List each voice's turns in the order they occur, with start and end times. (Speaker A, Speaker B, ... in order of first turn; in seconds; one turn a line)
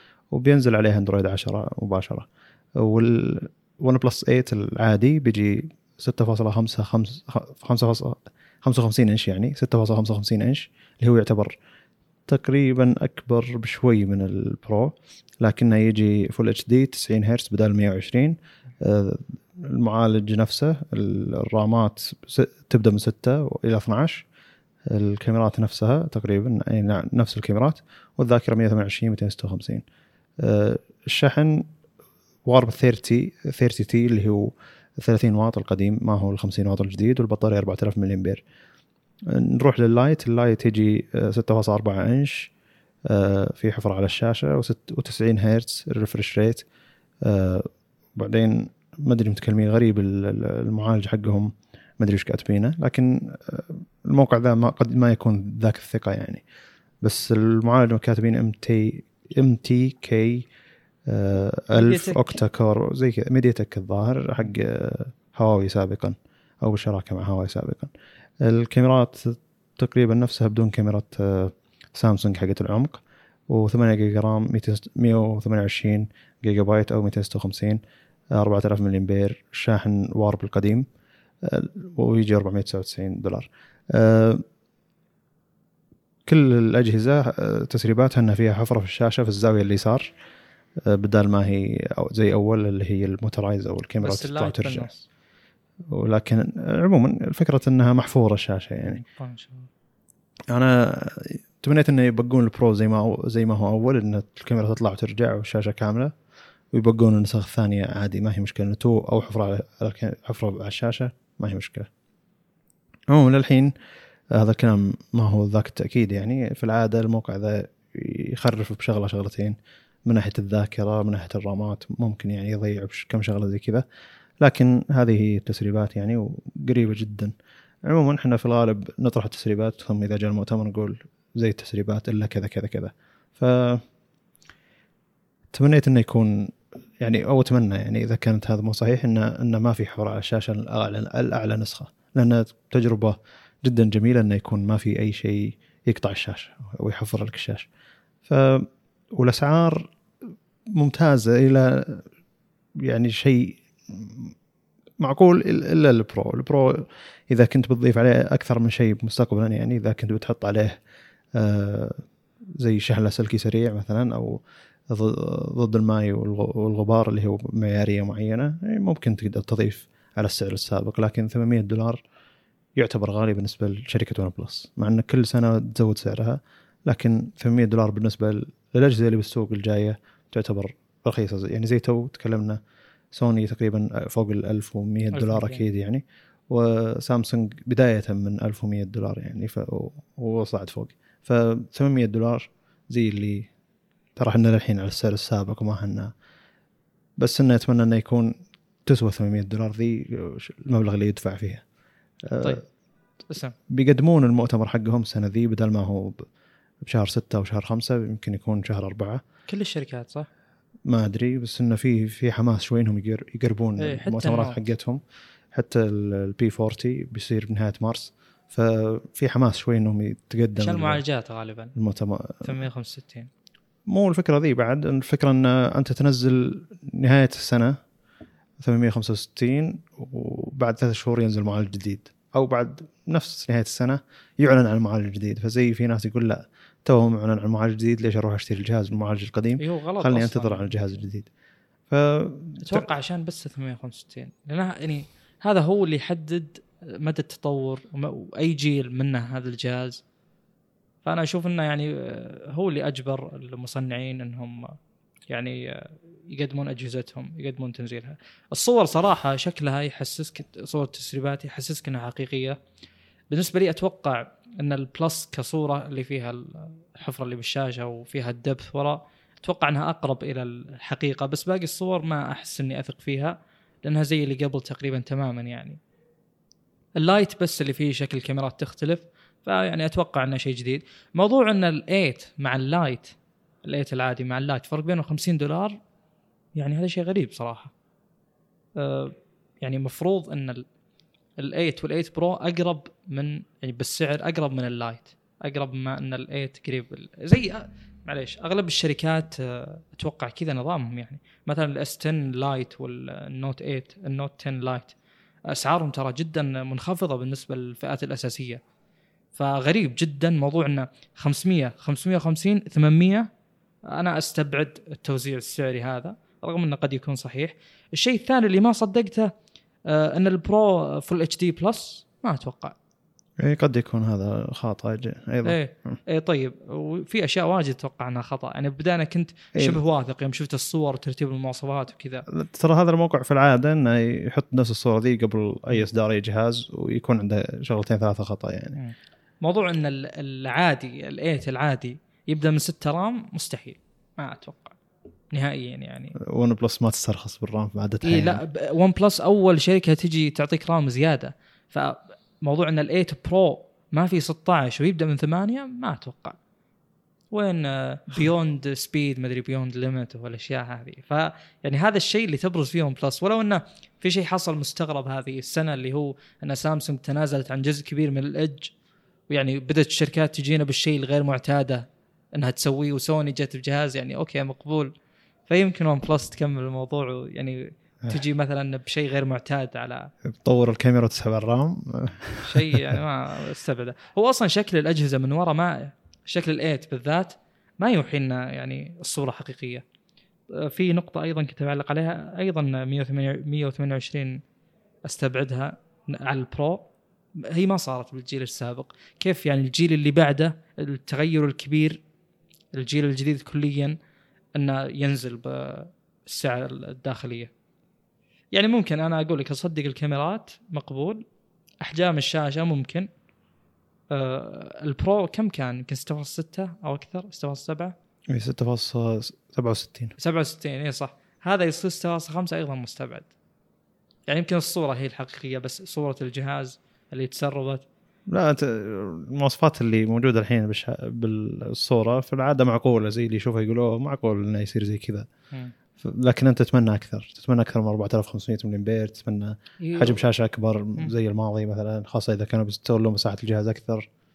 Speaker A: 0.3-11.6
Speaker A: 12.3-24.2
Speaker A: 24.9-29.8
Speaker A: 30.4-31.7
Speaker A: 32.5-38.4
Speaker A: 39.3-42.5
Speaker A: 43.1-46.6
Speaker A: 47.2-56.4
Speaker A: 57.0-60.5
Speaker A: 61.1-77.8
Speaker B: 61.8-62.4
Speaker A: 78.3-80.9
Speaker A: 81.4-84.4
Speaker A: 86.3-90.1
Speaker A: 90.8-94.9
Speaker B: 94.0-95.1
Speaker A: 95.9-99.0
Speaker B: 99.0-99.7
Speaker A: 100.5-106.1
Speaker A: 106.7-111.9
Speaker A: 113.1-113.7
Speaker A: 114.3-123.8
Speaker A: 124.4-127.3
Speaker A: 127.9-133.8
Speaker A: 135.5-147.7
Speaker A: 148.3-149.9
Speaker A: 150.7-152.0
Speaker A: 152.9-154.3
Speaker A: 155.0-160.8
Speaker A: 161.3-162.0
Speaker A: 162.6-172.0
Speaker A: 172.8-182.6
Speaker A: 183.1-193.5
Speaker B: 185.1-185.6
Speaker A: 194.2-196.1
Speaker A: 197.2-198.3
Speaker A: 198.9-201.6
Speaker A: 202.2-202.6
Speaker B: 203.3-203.6
Speaker A: 203.7-206.2
Speaker A: 206.8-209.2
Speaker B: 209.5-210.3
Speaker A: 210.9-215.0
Speaker B: 213.8-214.6
Speaker A: 215.5-221.0
Speaker B: 220.6-221.7
Speaker A: 221.8-222.6
Speaker B: 222.4-223.3
Speaker A: 223.9-227.8
Speaker A: 228.6-241.3
Speaker B: 239.6-240.7
Speaker A: 241.9-242.9
Speaker B: 242.6-250.0
Speaker B: 251.0-254.8
Speaker B: 255.3-262.6
Speaker B: 263.3-275.8
Speaker B: 277.0-285.8
Speaker B: 286.6-287.7
Speaker B: 288.8-290.6
Speaker B: 291.4-304.9
Speaker B: 305.5-308.6
Speaker B: 309.4-313.3
Speaker B: 313.9-319.3
Speaker B: 319.9-322.8
Speaker A: 323.4-326.0
Speaker B: 325.4-332.3
Speaker A: 329.5-329.8
Speaker A: 332.3-338.8
Speaker B: 338.8-344.8
Speaker B: 345.3-346.1
Speaker A: 346.2-348.4
Speaker B: 348.0-356.4
Speaker B: 357.3-368.7
Speaker B: 369.3-374.9
Speaker B: 375.5-380.1
Speaker A: 380.2-383.0
Speaker B: 382.4-389.8
Speaker B: 390.5-394.4
Speaker B: 395.1-396.9
Speaker B: 397.4-402.0
Speaker B: 402.7-404.0
Speaker B: 404.6-407.5
Speaker B: 408.5-411.2
Speaker B: 411.8-413.1
Speaker B: 414.1-417.9
Speaker A: 418.3-420.2
Speaker B: 420.2-423.3
Speaker B: 424.3-427.9
Speaker A: 428.3-435.3
Speaker A: 436.0-444.1
Speaker B: 439.8-440.2